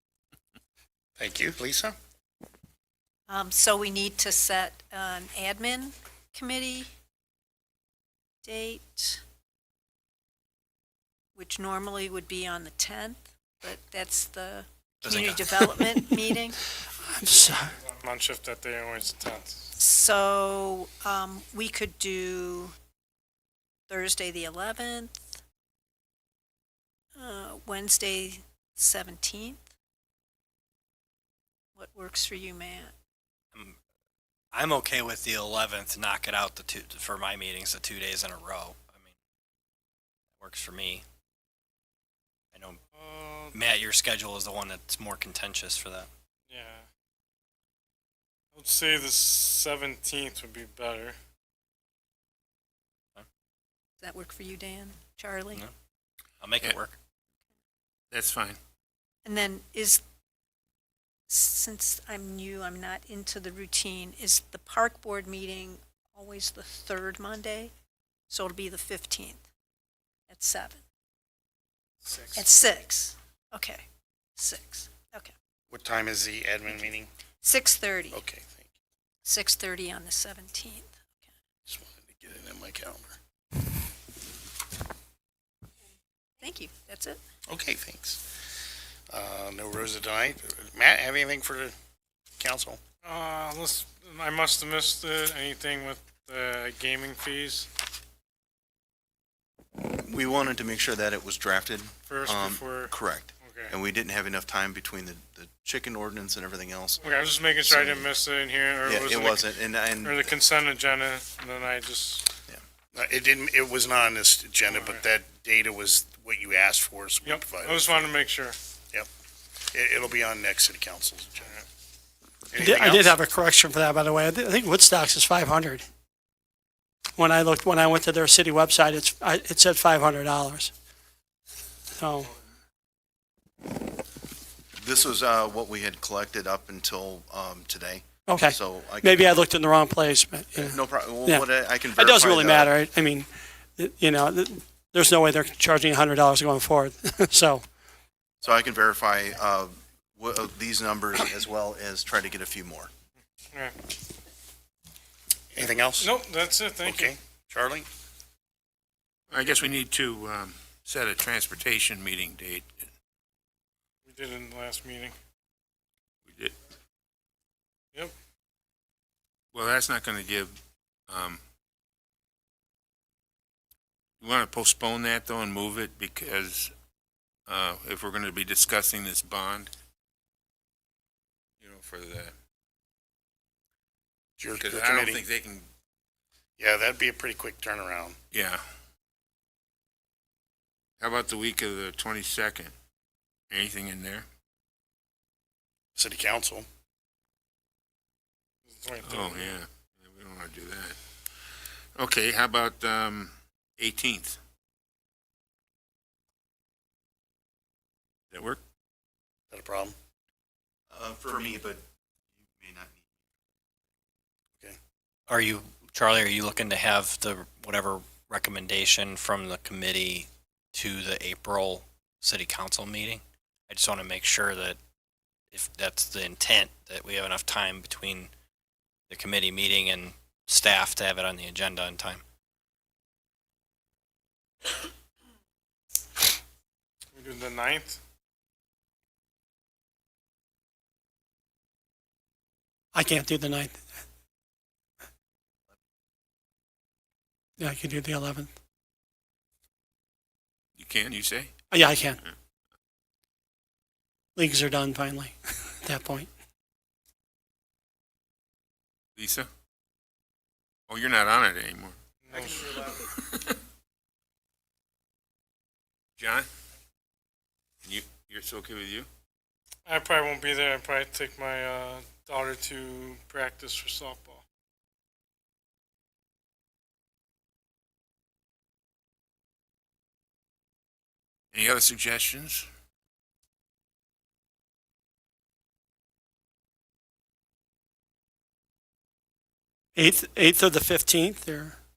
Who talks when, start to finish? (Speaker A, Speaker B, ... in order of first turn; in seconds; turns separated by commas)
Speaker A: 1.2-1.9, Speaker B: 3.3-6.9, Speaker B: 8.4-9.2, Speaker B: 11.3-16.6, Speaker C: 15.0-15.4, Speaker D: 17.0-17.8, Speaker E: 17.9-19.6, Speaker B: 19.8-22.7, Speaker B: 23.9-25.1, Speaker B: 27.1-29.6, Speaker B: 31.7-32.9, Speaker C: 34.5-39.1, Speaker C: 40.4-41.0, Speaker C: 42.5-42.8, Speaker E: 42.9-43.6, Speaker C: 43.5-46.1, Speaker E: 46.5-46.8, Speaker E: 48.5-51.1, Speaker B: 54.0-55.6, Speaker C: 56.4-57.0, Speaker F: 58.1-58.6, Speaker B: 59.2-60.0, Speaker B: 61.3-67.7, Speaker B: 68.3-69.4, Speaker B: 70.3-70.8, Speaker E: 72.0-72.4, Speaker B: 72.3-73.8, Speaker B: 74.4-75.3, Speaker A: 75.7-77.1, Speaker B: 77.4-78.2, Speaker A: 78.1-78.7, Speaker B: 79.2-81.0, Speaker A: 81.7-83.2, Speaker B: 86.4-87.2, Speaker A: 87.5-88.2, Speaker A: 89.1-91.7, Speaker A: 92.4-92.8, Speaker E: 93.0-97.7, Speaker G: 99.8-108.1, Speaker E: 102.1-103.7, Speaker E: 107.0-109.5, Speaker G: 108.8-110.2, Speaker E: 110.0-112.3, Speaker A: 112.9-118.1, Speaker E: 114.6-115.0, Speaker E: 117.2-118.6, Speaker A: 119.7-121.5, Speaker A: 122.5-123.2, Speaker D: 122.6-125.8, Speaker D: 127.2-130.7, Speaker D: 131.9-132.3, Speaker G: 134.8-139.3, Speaker D: 138.3-147.6, Speaker G: 140.6-142.7, Speaker G: 148.4-152.9, Speaker A: 155.5-156.1, Speaker E: 156.0-157.1, Speaker A: 156.8-157.9, Speaker F: 159.3-162.7, Speaker E: 164.0-165.1, Speaker F: 166.3-166.5, Speaker F: 169.5-170.6, Speaker F: 171.1-171.4, Speaker F: 174.2-176.7, Speaker F: 177.5-179.7, Speaker F: 181.6-182.3, Speaker A: 184.4-185.2, Speaker F: 184.5-185.7, Speaker A: 186.6-188.2, Speaker F: 188.3-188.6, Speaker F: 191.0-192.7, Speaker F: 193.5-194.2, Speaker A: 195.9-196.7, Speaker E: 198.7-199.6, Speaker F: 199.0-201.0, Speaker F: 201.5-204.4, Speaker F: 208.3-208.6, Speaker A: 209.5-209.9, Speaker G: 210.9-211.8, Speaker G: 212.5-213.1, Speaker C: 215.3-224.8, Speaker C: 225.5-228.3, Speaker C: 229.1-232.2, Speaker E: 237.1-238.0, Speaker D: 242.9-243.8, Speaker D: 247.6-248.5, Speaker F: 250.8-251.5, Speaker D: 251.7-252.2, Speaker D: 254.3-256.3, Speaker F: 259.1-259.5, Speaker F: 260.9-262.0, Speaker E: 262.2-262.9, Speaker F: 262.6-263.6, Speaker F: 266.2-266.5, Speaker F: 267.8-269.1, Speaker E: 269.9-274.4, Speaker F: 281.5-282.7, Speaker D: 289.9-291.8